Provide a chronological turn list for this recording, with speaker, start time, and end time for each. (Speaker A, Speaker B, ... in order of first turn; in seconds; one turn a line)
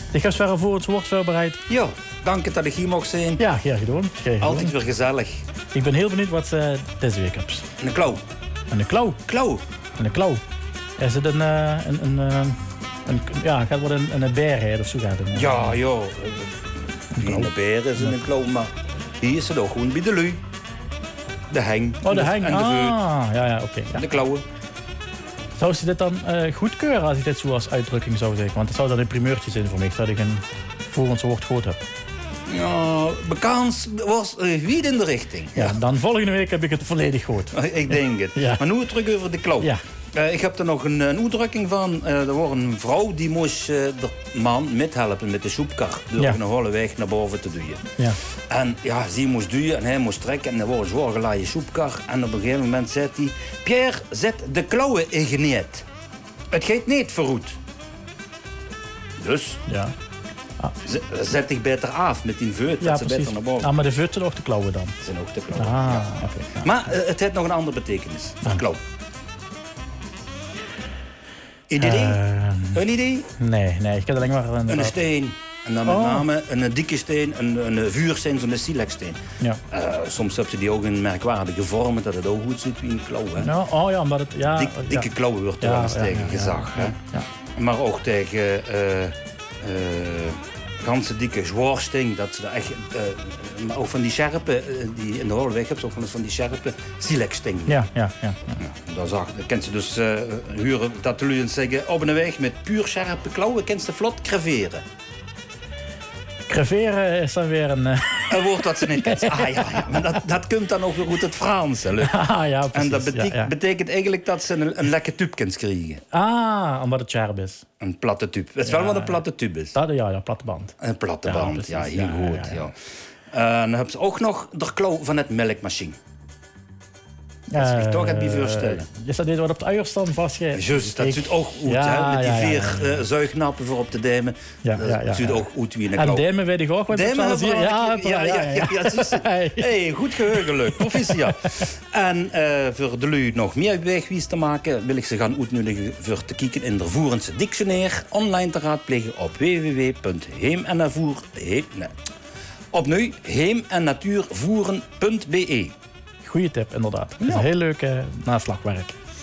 Speaker A: 0.1-1.6
Speaker B: 1.7-3.4
Speaker A: 3.4-4.7
Speaker B: 4.4-5.4
Speaker A: 5.7-7.7
Speaker B: 7.8-8.2
Speaker A: 8.7-9.2
Speaker B: 9.3-9.6
Speaker A: 10.0-10.4
Speaker A: 11.0-15.8
Speaker B: 15.3-20.4
Speaker A: 17.2-17.5
Speaker B: 21.5-23.0
Speaker A: 22.0-24.1
Speaker B: 23.9-24.4
Speaker A: 25.6-31.8
Speaker B: 32.5-35.8
Speaker A: 35.5-37.5
Speaker B: 37.5-47.8
Speaker A: 38.3-38.6
Speaker B: 48.5-55.8
Speaker B: 56.5-57.6
Speaker B: 59.2-59.6
Speaker A: 59.7-59.9
Speaker B: 60.8-63.7
Speaker A: 62.8-65.0
Speaker B: 65.0-68.8
Speaker A: 65.5-66.7
Speaker B: 71.7-72.2
Speaker A: 71.8-72.8
Speaker B: 72.7-73.3
Speaker A: 73.4-74.9
Speaker B: 74.7-83.5
Speaker A: 75.8-76.2
Speaker A: 83.4-85.1
Speaker B: 84.5-87.0
Speaker A: 85.6-87.2
Speaker B: 87.5-97.8
Speaker A: 97.7-98.6
Speaker B: 98.6-104.8
Speaker A: 106.5-110.0
Speaker B: 108.3-112.1
Speaker A: 112.0-113.5
Speaker B: 112.7-116.0
Speaker A: 116.1-117.6
Speaker B: 117.8-119.7
Speaker A: 118.7-119.2
Speaker A: 119.7-120.7
Speaker B: 120.8-122.7
Speaker A: 121.2-122.6
Speaker B: 123.3-126.0
Speaker A: 127.5-133.0
Speaker B: 127.5-128.8
Speaker B: 130.5-136.2
Speaker A: 134.6-139.8
Speaker B: 136.9-151.9
Speaker A: 140.3-141.6
Speaker B: 152.7-155.7
Speaker A: 156.2-158.9
Speaker B: 157.2-157.5